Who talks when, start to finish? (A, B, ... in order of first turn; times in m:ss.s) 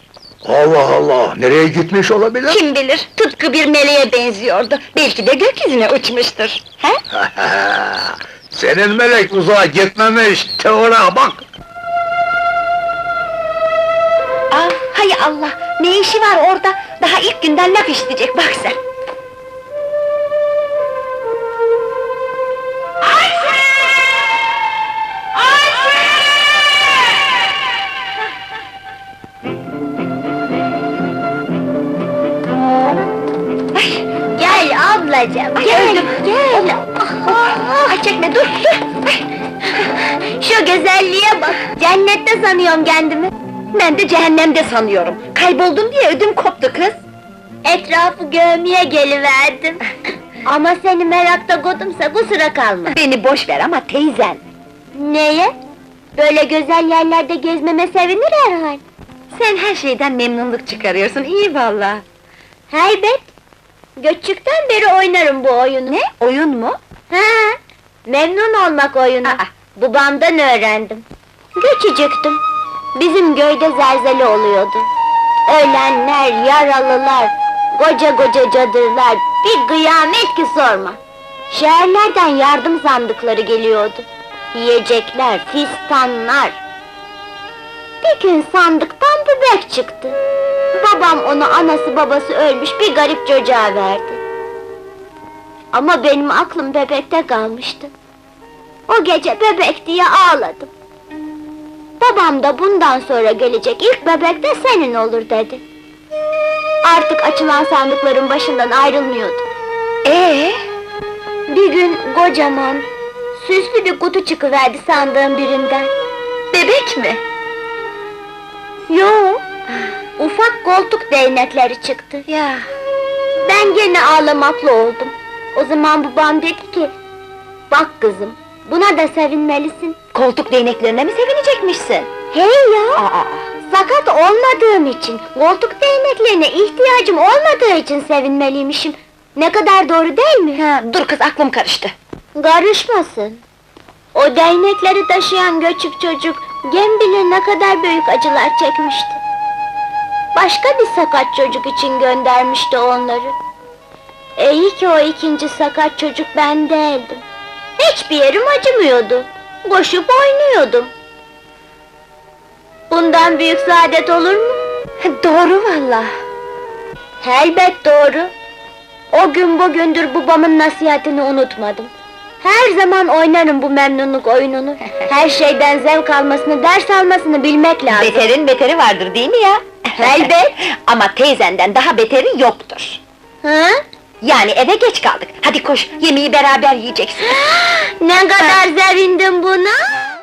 0:00.4-0:02.6 A
0:02.5-0:07.0 B
0:07.2-0:11.4 A
0:14.5-0:18.8 B
0:33.7-0:34.0 B
0:34.3-0:37.9 C
0:35.5-0:36.7 B
0:37.2-0:39.2 B
0:39.8-0:43.3 C
0:43.7-0:47.0 B
0:47.6-0:49.8 C
0:50.4-0:53.0 C
0:52.9-0:54.4 B
0:54.9-0:55.5 C
0:56.1-0:58.8 C
0:59.3-1:02.0 B
1:02.7-1:03.3 C
1:04.0-1:06.0 C
1:05.9-1:06.8 B
1:07.1-1:12.4 C
1:13.0-1:14.9 C
1:15.5-1:21.0 C
1:21.5-1:26.6 C
1:28.0-1:30.2 C
1:30.7-1:34.2 C
1:35.7-1:37.9 C
1:38.9-1:40.7 C
1:42.0-1:45.6 C
1:46.8-1:49.4 C
1:50.0-1:50.6 B
1:51.5-1:52.8 C
1:53.4-1:55.9 C
1:56.5-1:57.2 B
1:58.9-1:59.4 C
2:00.2-2:02.2 C
2:02.3-2:02.6 B
2:03.4-2:06.9 C
2:07.7-2:10.0 C
2:10.1-2:12.1 B
2:12.3-2:13.0 C
2:13.0-2:13.5 B
2:13.6-2:20.6 C
2:20.5-2:21.9 B
2:22.4-2:23.4 C
2:24.1-2:29.2 C
2:30.3-2:33.3 C
2:34.4-2:37.2 C
2:37.8-2:40.9 C
2:42.9-2:44.6 C
2:45.0-2:46.1 B
2:47.2-2:48.3 C
2:49.1-2:51.9 C
2:52.4-2:58.3 C
2:57.9-3:03.0 B
3:00.0-3:00.6 C
3:03.4-3:03.8 C
3:04.2-3:07.4 B
3:07.2-3:09.9 C